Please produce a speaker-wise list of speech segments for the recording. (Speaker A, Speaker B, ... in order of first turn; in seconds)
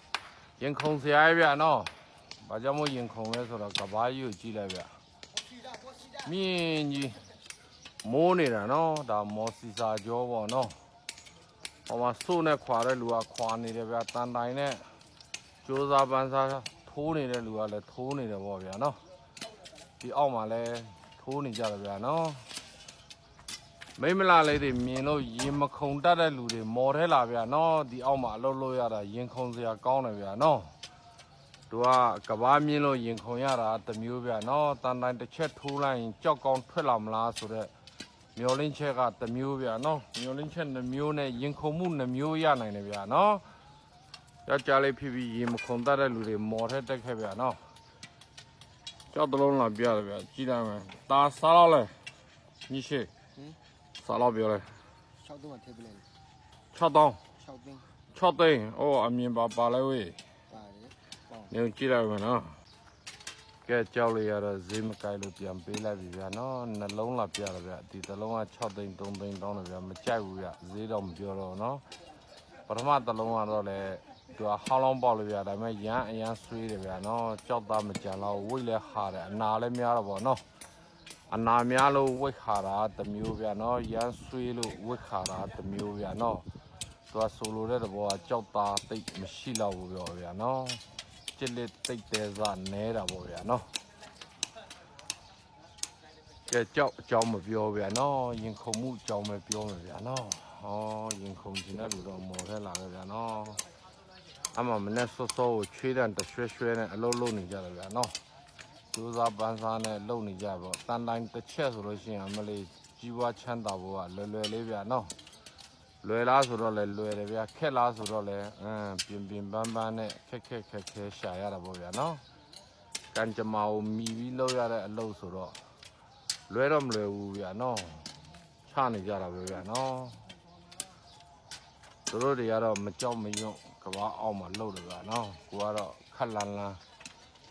Speaker A: 0.6-5.0, 6.2-7.2, 8.0-10.8, 11.9-14.9, 15.6-19.0, 20.0-22.4, 24.0-30.7, 31.7-37.7, 38.4-43.4, 44.4-47.6, 49.1-51.9, 52.7-53.1, 54.0-54.7, 56.7-57.2, 58.1-60.2, 61.5-62.5, 63.6-71.8, 72.7-80.4, 81.3-86.5, 87.1-90.8, 91.3-93.7, 96.5-103.6, 104.5-108.2, 108.9-115.1, 116.0-122.2, 123.1-125.6, 126.5-128.1, 128.6-130.2, 132.1-136.8
Speaker B: 55.2-56.1, 57.4-57.9, 60.5-61.5